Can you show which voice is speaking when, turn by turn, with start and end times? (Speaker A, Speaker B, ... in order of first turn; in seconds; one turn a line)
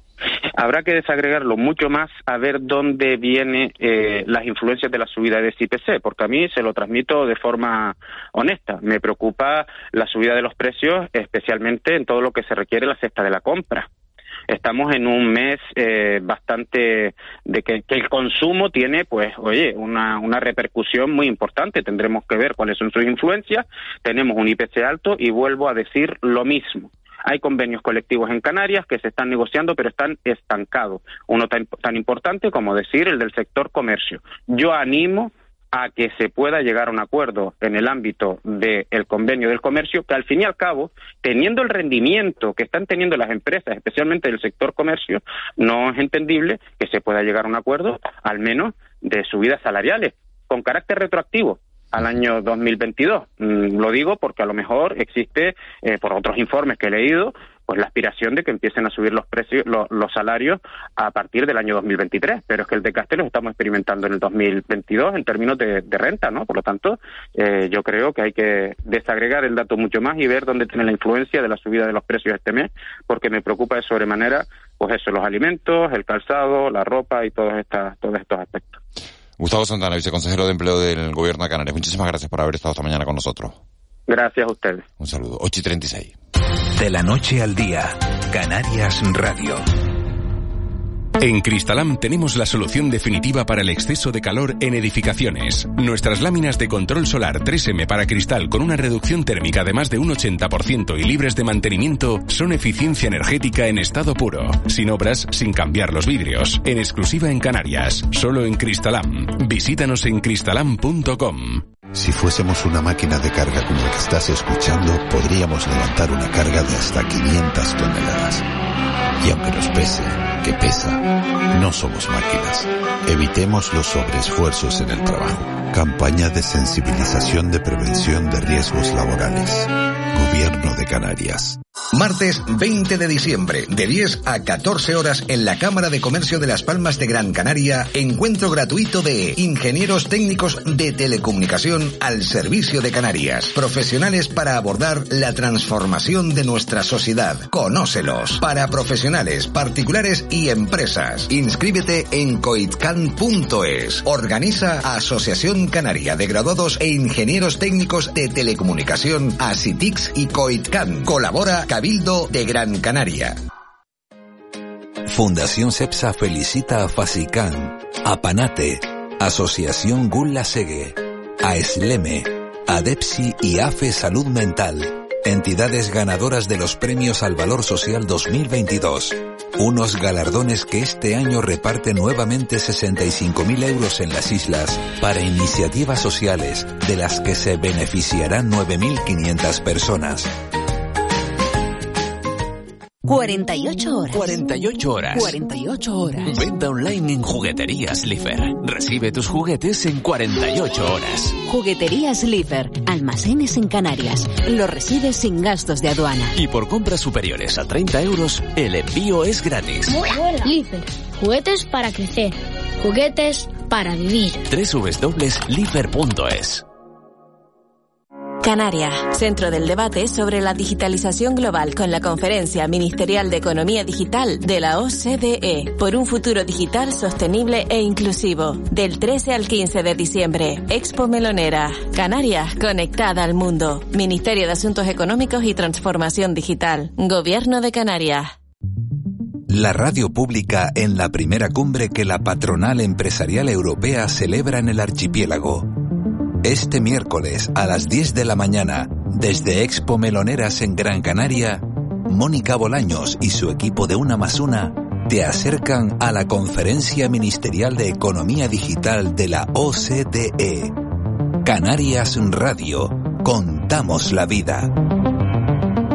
Speaker A: 0.6-13.9
Speaker A: 14.5-78.8
Speaker B: 79.4-83.6
Speaker A: 84.1-84.8
Speaker B: 85.0-86.1
Speaker C: 86.8-89.6
Speaker D: 91.2-111.6
Speaker E: 111.9-118.5
Speaker E: 119.2-131.6
Speaker F: 131.9-163.4
Speaker C: 165.1-190.3
Speaker G: 193.1-196.4
Speaker H: 196.5-200.2
Speaker G: 201.5-206.3
Speaker H: 206.4-207.1
Speaker H: 207.7-208.4
Speaker I: 209.9-214.5
Speaker H: 214.5-216.3
Speaker J: 218.4-238.3
Speaker C: 239.5-245.7
Speaker C: 246.4-260.8
Speaker C: 261.4-264.7